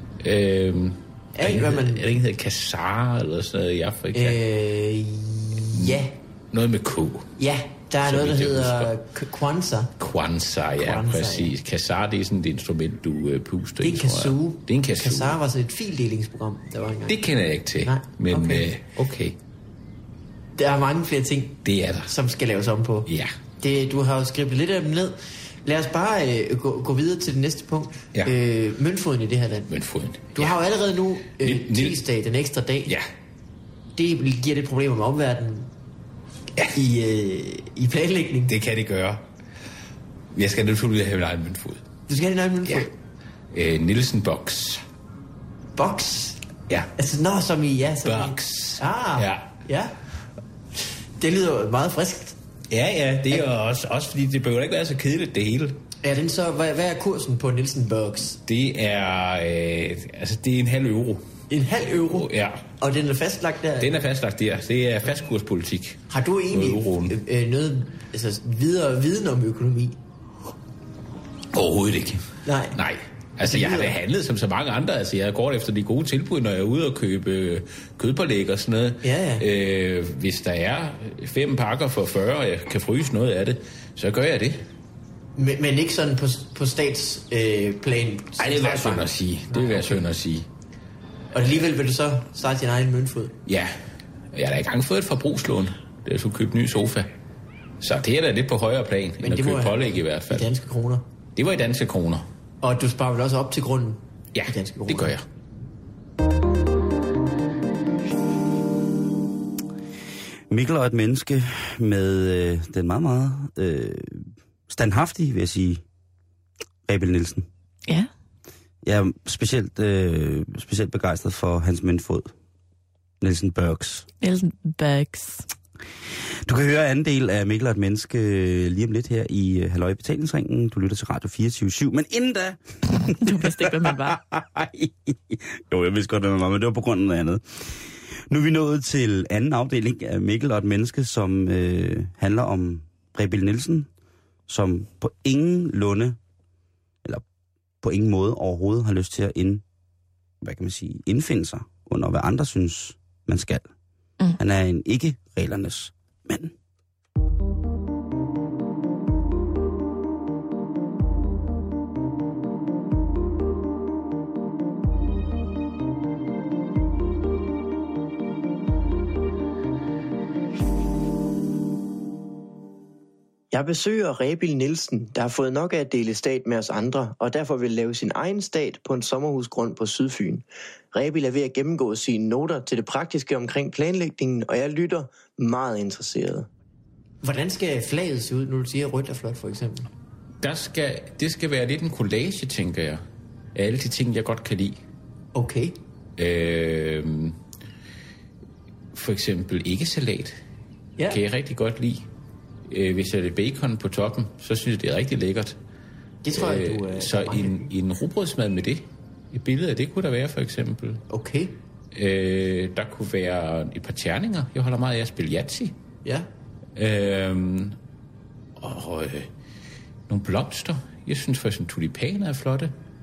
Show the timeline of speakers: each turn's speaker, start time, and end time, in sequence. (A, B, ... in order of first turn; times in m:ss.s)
0:00.2-0:04.4 A
0:01.3-0:02.1 B
0:04.1-0:06.1 B
0:05.7-0:07.3 A
0:07.4-0:09.9 B
0:08.0-0:08.9 A
0:10.0-0:15.4 A
0:10.8-0:11.5 B
0:13.8-0:17.2 B
0:17.1-0:19.4 A
0:17.8-0:18.7 B
0:20.5-0:23.1 B
0:21.6-0:22.1 A
0:23.0-0:23.3 A
0:23.6-0:29.7 B
0:29.7-0:30.6 A
0:30.3-0:32.9 B
0:31.4-0:32.0 A
0:34.0-0:35.7 B
0:36.7-0:38.5 B
0:38.5-0:39.2 A
0:40.3-0:41.8 A
0:42.1-0:42.9 B
0:43.5-0:44.8 A
0:45.8-0:46.4 B
0:47.0-0:49.9 B
0:48.0-0:49.5 A
0:51.2-0:52.4 B
0:52.7-0:55.8 A
0:56.0-0:58.4 B
0:58.4-1:01.2 A
1:01.5-1:02.3 B
1:01.8-1:02.6 A
1:02.8-1:04.0 B
1:03.8-1:07.2 A
1:06.1-1:10.0 B
1:11.5-1:24.6 A
1:12.4-1:12.8 B
1:13.4-1:14.0 B
1:19.0-1:19.4 B
1:25.4-1:30.0 B
1:28.4-1:30.5 A
1:31.3-1:33.3 B
1:33.4-1:33.7 A
1:34.3-1:37.1 A
1:37.8-1:40.5 A
1:39.2-1:41.0 B
1:41.4-1:42.2 A
1:42.6-1:45.1 B
1:44.3-1:45.2 A
1:50.5-1:55.8 C
1:56.9-1:57.5 C
1:58.8-2:02.3 C
2:03.2-2:04.1 C
2:04.2-2:05.4 D
2:06.4-2:17.4 C
2:13.2-2:14.2 D
2:18.3-2:23.9 C
2:24.5-2:26.2 C
2:27.8-2:29.6 C
2:30.4-2:33.7 C
2:34.4-2:36.5 C
2:53.5-3:06.5 E
3:07.2-3:09.9 B
3:10.4-3:13.0 A
3:13.5-3:14.8 A
3:15.3-3:15.8 B
3:16.2-3:17.4 A
3:18.9-3:20.4 A
3:21.0-3:22.1 A
3:22.7-3:25.6 A
3:26.2-3:27.7 B
3:26.3-3:31.0 A
3:31.1-3:31.6 B
3:31.9-3:35.7 A
3:36.8-3:37.8 A
3:38.6-3:39.3 A
3:40.1-3:42.7 A